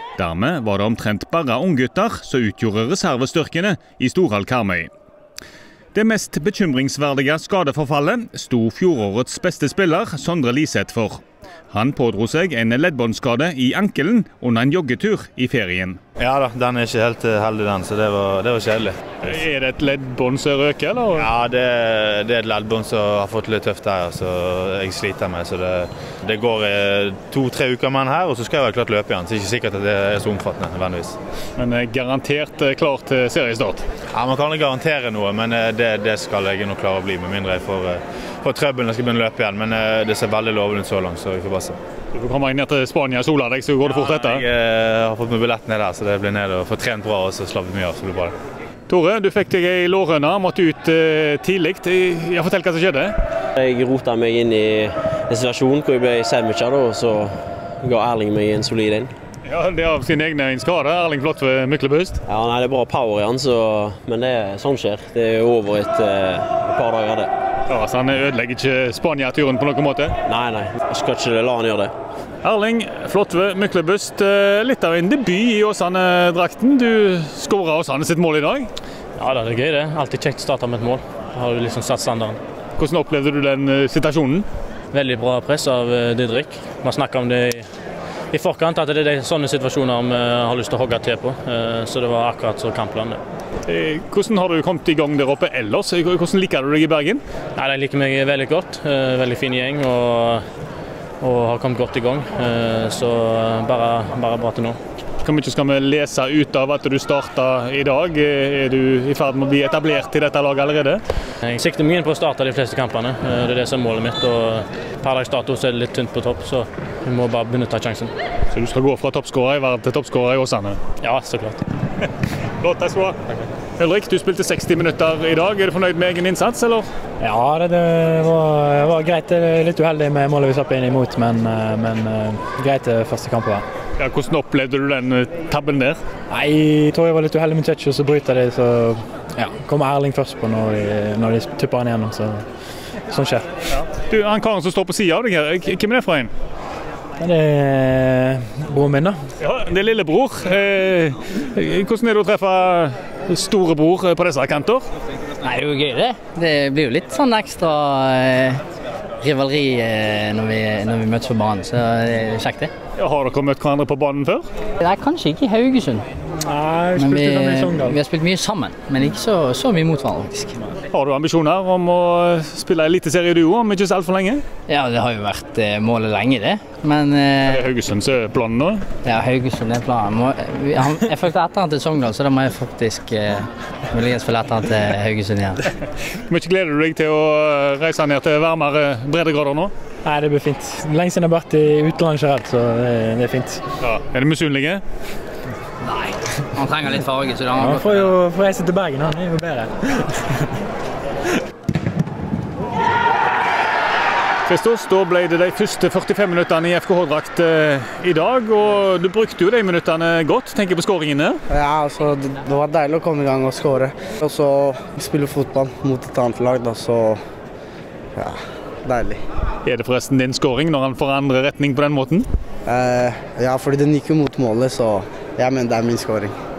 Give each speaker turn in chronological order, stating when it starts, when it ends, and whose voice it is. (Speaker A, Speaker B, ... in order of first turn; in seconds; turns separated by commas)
Speaker A: 0.2-4.9, Speaker A: 5.9-16.0, Speaker B: 16.2-18.9, Speaker A: 19.2-21.3, Speaker B: 21.2-31.2, Speaker A: 31.6-33.9, Speaker B: 34.1-41.8, Speaker A: 42.1-44.5, Speaker B: 43.9-48.3, Speaker A: 48.9-53.1, Speaker C: 53.6-59.1, Speaker A: 59.5-62.2, Speaker C: 62.3-67.3, Speaker A: 67.7-70.1, Speaker C: 70.3-71.9, Speaker A: 72.4-78.7, Speaker D: 79.2-82.4, Speaker A: 82.8-84.5, Speaker D: 84.9-87.7, Speaker D: 88.3-93.2, Speaker A: 93.7-97.2, Speaker D: 97.6-100.5, Speaker D: 101.2-104.8, Speaker A: 105.2-111.0, Speaker D: 111.4-118.1, Speaker A: 118.5-120.8, Speaker D: 121.0-121.6, Speaker A: 122.6-123.2, Speaker A: 123.8-126.9, Speaker E: 127.2-133.7, Speaker A: 134.0-136.0, Speaker E: 136.3-142.4, Speaker E: 143.1-143.5, Speaker A: 143.7-146.3, Speaker E: 147.2-149.2, Speaker A: 149.4-154.9, Speaker F: 155.4-158.6, Speaker F: 159.2-162.7, Speaker A: 163.0-164.5, Speaker F: 164.8-166.1, Speaker E: 166.4-168.0, Speaker F: 166.9-170.6, Speaker A: 170.9-174.4, Speaker F: 174.7-177.7, Speaker A: 177.5-178.9, Speaker F: 179.1-185.6, Speaker A: 186.3-189.7, Speaker E: 190.0-193.6, Speaker A: 193.8-194.8, Speaker F: 195.8-198.2, Speaker E: 197.6-200.6, Speaker A: 204.5-211.4, Speaker G: 211.5-217.2, Speaker G: 218.2-219.2, Speaker A: 219.7-222.3, Speaker G: 222.7-226.3